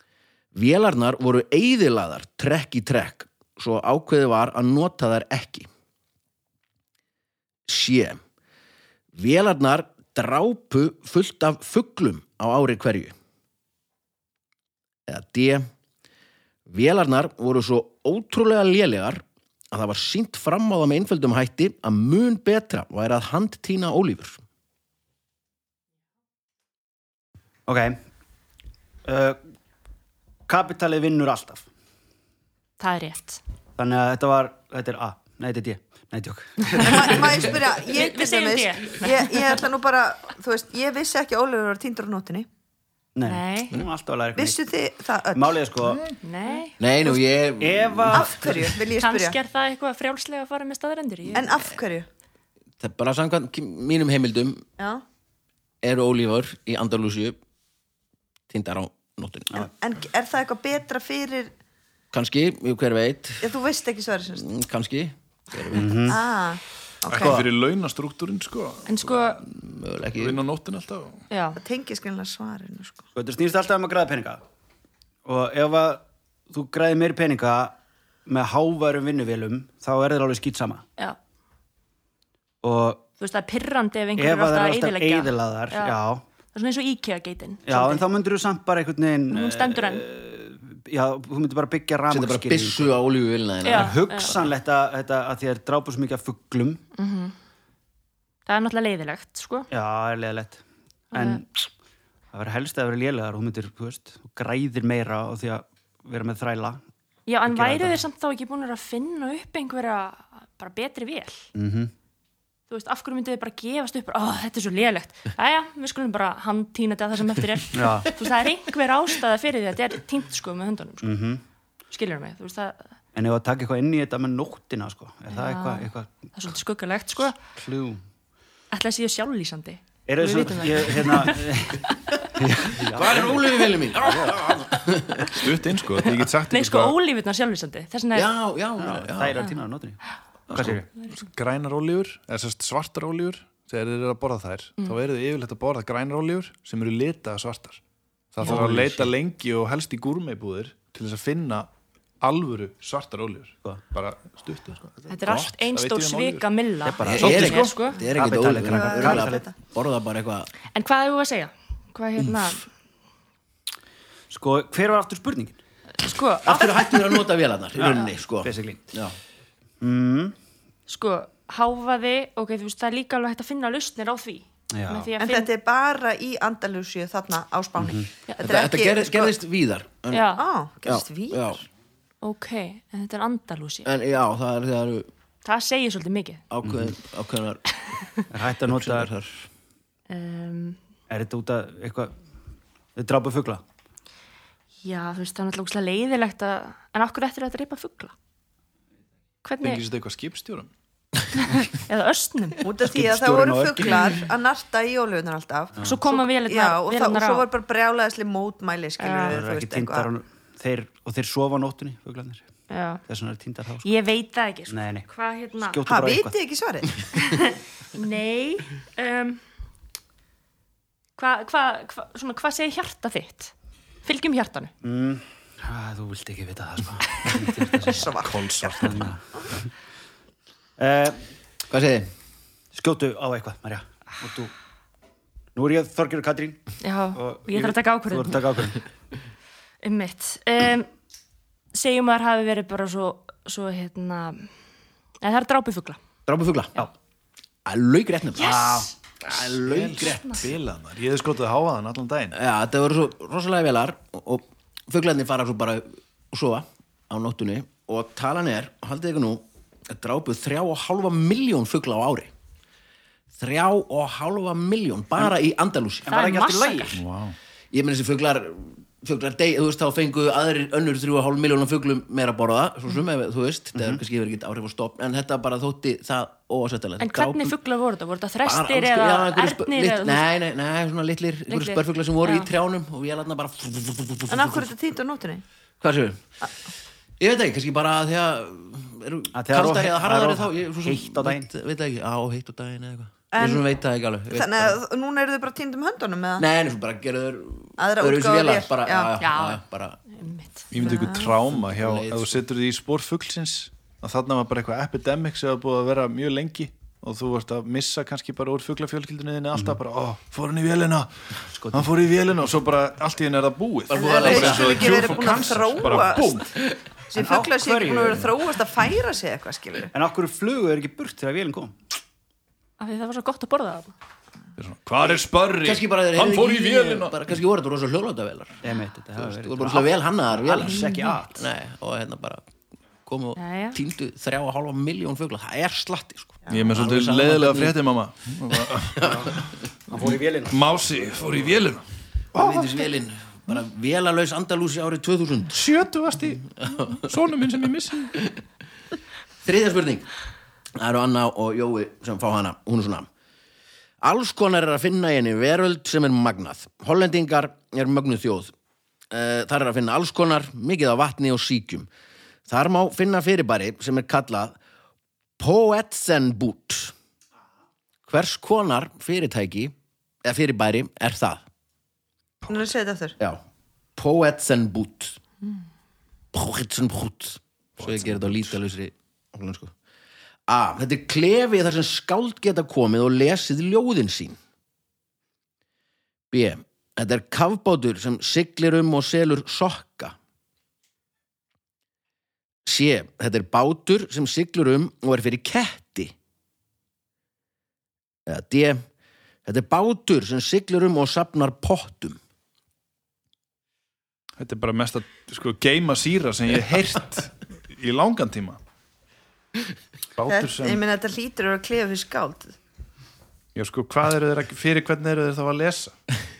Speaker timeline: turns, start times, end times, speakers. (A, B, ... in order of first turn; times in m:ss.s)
0:00.5-0:05.7 A
0:07.7-0:08.2 A
0:09.1-0:13.1 A
0:15.1-0:15.7 A
0:16.7-0:24.4 A
0:27.7-0:28.0 B
0:29.0-0:29.4 B
0:30.5-0:31.7 B
0:32.8-0:33.4 C
0:33.8-0:37.4 B
0:36.8-0:42.5 D
0:36.8-0:39.6 C
0:43.1-0:44.6 B
0:43.2-0:43.8 C
0:44.3-0:45.6 D
0:45.3-0:46.1 B
0:45.8-0:46.2 E
0:46.2-0:46.8 C
0:46.8-0:48.3 A
0:47.1-0:48.7 B
0:48.1-0:49.4 D
0:49.0-0:51.6 C
0:51.3-0:52.1 D
0:52.8-0:54.6 A
0:54.8-0:55.0 D
0:55.8-0:57.4 A
0:58.5-0:59.7 A
0:59.5-1:01.5 D
1:02.1-1:03.5 A
1:03.4-1:04.4 D
1:04.3-1:06.2 A
1:05.7-1:06.2 B
1:06.0-1:07.4 D
1:07.1-1:09.4 E
1:08.8-1:09.4 C
1:09.4-1:10.4 A
1:10.2-1:11.2 E
1:11.3-1:11.6 C
1:11.6-1:13.0 D
1:13.1-1:14.4 B
1:15.2-1:17.7 B
1:18.2-1:20.8 B
1:22.6-1:23.0 B
1:23.2-1:26.0 C
1:24.2-1:26.2 B
1:26.5-1:28.0 C
1:27.6-1:32.9 B
1:29.3-1:30.0 C
1:32.1-1:34.3 A
1:33.6-1:34.4 C
1:33.7-1:36.8 B
1:37.0-1:37.3 C
1:38.4-1:39.7 C
1:39.7-1:40.6 B
1:41.1-1:41.4 C
1:41.1-1:41.6 B
1:42.3-1:46.8 B
1:47.3-1:51.5 C
1:47.5-1:48.0 B
1:51.5-1:51.9 B
1:52.7-2:01.2 C
1:57.7-1:58.1 B
2:01.0-2:01.4 B
2:01.9-2:02.9 C
2:03.1-2:06.1 B
2:05.3-2:07.4 C
2:07.6-2:08.0 B
2:08.7-2:12.2 C
2:10.1-2:14.4 B
2:12.8-2:15.4 A
2:15.3-2:16.9 E
2:16.4-2:18.3 C
2:18.1-2:19.4 A
2:18.8-2:20.0 B
2:20.5-2:20.8 A
2:20.5-2:20.9 B
2:20.6-2:27.8 E
2:28.3-2:31.7 E
2:28.4-2:29.1 B
2:32.2-2:36.5 E
2:35.1-2:38.0 C
2:36.8-2:39.4 B
2:37.0-2:40.5 A
2:37.2-2:37.7 E
2:38.7-2:39.5 D
2:40.7-2:42.7 C
2:44.3-2:45.6 B
2:46.0-2:47.2 C
2:46.4-2:49.2 A
2:47.8-2:48.8 B
2:49.8-2:50.3 B
2:50.9-2:55.5 C
2:54.7-2:55.1 B
2:55.2-2:59.3 D
2:57.8-2:58.1 B
2:58.4-3:00.3 A
3:00.1-3:00.4 C
3:00.4-3:01.6 D
3:00.8-3:01.6 A
3:02.2-3:03.9 C
3:03.8-3:05.1 A
3:05.4-3:06.4 C
3:06.5-3:07.6 A
3:06.6-3:06.9 B
3:08.3-3:09.1 B
3:08.7-3:09.5 A
3:10.1-3:10.8 C
3:11.1-3:12.1 B
3:13.0-3:13.6 B
3:14.8-3:18.1 C
3:19.4-3:19.8 C
3:19.6-3:20.7 E
3:21.4-3:22.6 C
3:22.6-3:30.1 D
3:22.9-3:24.1 B
3:25.8-3:27.5 C
3:29.0-3:29.4 C
3:29.3-3:32.4 B
3:32.7-3:33.0 C
3:33.1-3:33.9 B
3:33.8-3:35.8 C
3:34.7-3:35.1 B
3:35.6-3:36.3 B
3:35.8-3:37.2 D
3:37.2-3:39.4 C
3:41.2-3:43.5 C
3:44.0-3:44.7 C
3:44.8-3:48.1 B
3:47.8-3:49.0 D
3:48.1-3:49.1 E
3:48.8-3:49.6 B
3:50.8-3:51.2 B
3:51.7-3:52.1 A
3:52.7-3:54.5 B
3:55.5-3:56.6 B
3:56.8-3:58.4 C
3:57.1-3:58.8 B
3:59.8-4:00.9 C
4:01.7-4:04.5 C
4:05.2-4:06.0 C
4:06.2-4:06.7 A
4:07.6-4:10.5 A
4:08.4-4:08.9 B
4:08.4-4:08.8 C
4:09.5-4:12.3 E
4:10.0-4:10.4 C
4:12.3-4:22.3 A
4:23.4-4:26.2 A
4:26.0-4:27.0 B
4:26.1-4:27.0 C
4:26.9-4:27.4 E
4:27.7-4:37.5 A
4:37.0-4:40.2 C
4:38.4-4:44.7 A
4:41.5-4:42.5 C
4:44.3-4:45.4 D
4:45.8-4:46.3 A
4:47.2-4:54.8 A
4:49.3-4:51.5 B
4:53.3-4:53.6 D
4:54.3-4:56.4 D
4:56.4-5:00.0 A
4:57.8-4:59.1 D
4:59.2-5:01.0 C
5:00.7-5:16.6 E
5:00.9-5:01.3 D
5:01.4-5:02.4 A
5:11.5-5:11.9 B
5:13.9-5:14.9 A
5:13.9-5:16.6 D
5:17.1-5:19.9 D
5:17.1-5:18.3 B
5:19.9-5:21.7 B
5:22.8-5:23.9 C
5:24.6-5:27.2 E
5:25.6-5:28.6 A
5:28.6-5:31.4 B
5:29.1-5:32.4 A
5:30.6-5:31.2 C
5:33.0-5:37.8 A
5:33.4-5:33.8 C
5:36.5-5:42.8 E
5:39.0-5:39.4 A
5:39.0-5:41.0 B
5:42.3-5:45.6 A
5:45.5-5:48.2 E
5:46.6-5:47.1 A
5:49.4-5:50.1 A
5:50.8-5:53.1 A
5:54.0-5:58.5 A
5:59.1-6:01.9 A
6:02.5-6:04.6 A
6:05.4-6:06.9 A
6:08.1-6:11.4 A
6:12.4-6:12.7 E
6:12.5-6:13.2 D
6:14.0-6:15.2 A
6:16.3-6:19.7 A
6:17.8-6:18.6 E
6:20.5-6:24.4 A
6:26.3-6:30.2 A
6:32.6-6:36.1 A
6:38.3-6:38.8 A
6:39.4-6:42.2 A
6:44.4-6:48.6 E
6:50.2-6:50.8 E
6:50.3-6:52.5 D
6:53.5-6:56.0 E